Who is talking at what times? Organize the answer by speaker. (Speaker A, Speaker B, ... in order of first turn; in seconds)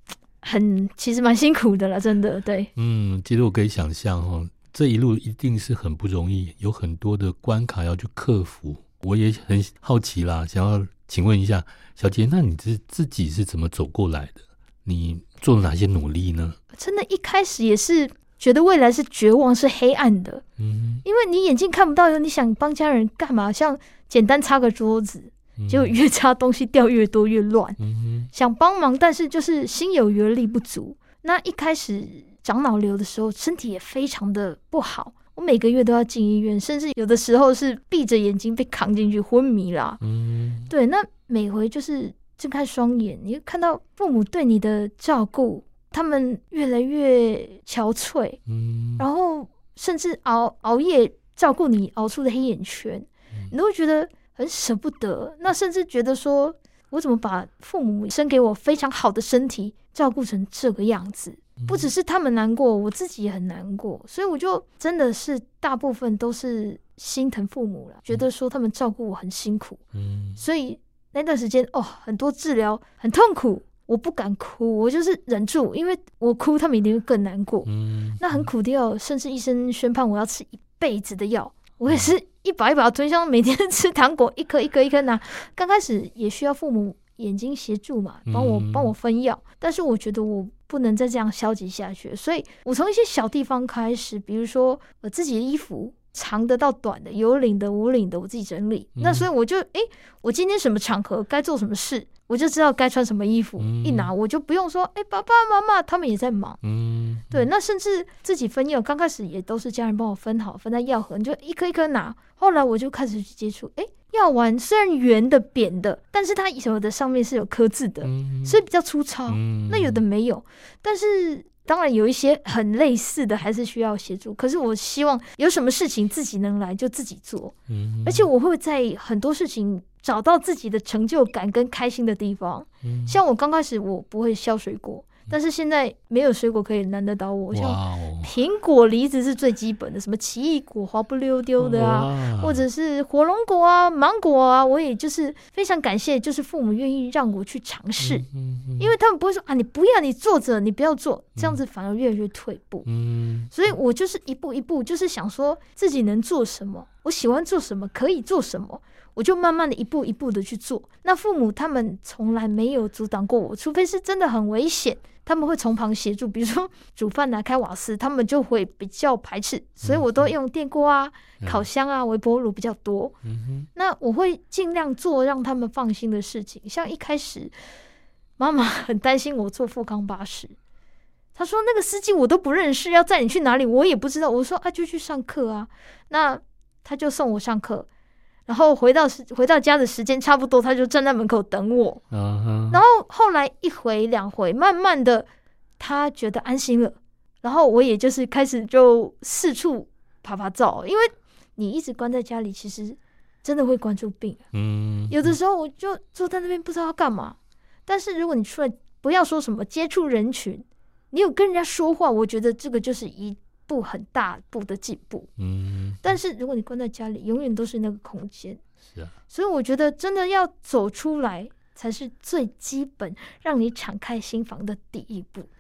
Speaker A: 0.4-2.7, 16.7-20.4, 21.1-27.8, 28.3-40.0, 40.7-48.4, 49.0-69.8, 70.4-106.6, 107.3-127.5, 128.1-148.3, 148.8-152.9, 153.5-173.2, 173.8-177.6, 178.4-180.6, 181.3-187.9, 188.5-192.0, 192.7-195.3, 195.8-204.4, 205.1-215.3, 216.0-218.6, 219.3-225.5
Speaker B: 2.8-16.6, 20.6-21.0, 25.6-26.0, 27.8-28.3, 40.0-40.7, 48.5-49.1, 61.6-61.9, 69.9-70.4, 77.7-78.5, 88.3-88.9, 99.0-99.3, 103.6-104.1, 106.6-107.5, 118.0-118.6, 119.3-120.0, 127.7-128.3, 132.8-133.2, 137.5-138.3, 141.6-142.6, 148.0-148.9, 152.9-153.7, 169.8-170.3, 171.4-171.7, 173.2-173.7, 192.1-192.8, 204.5-205.4, 215.4-216.2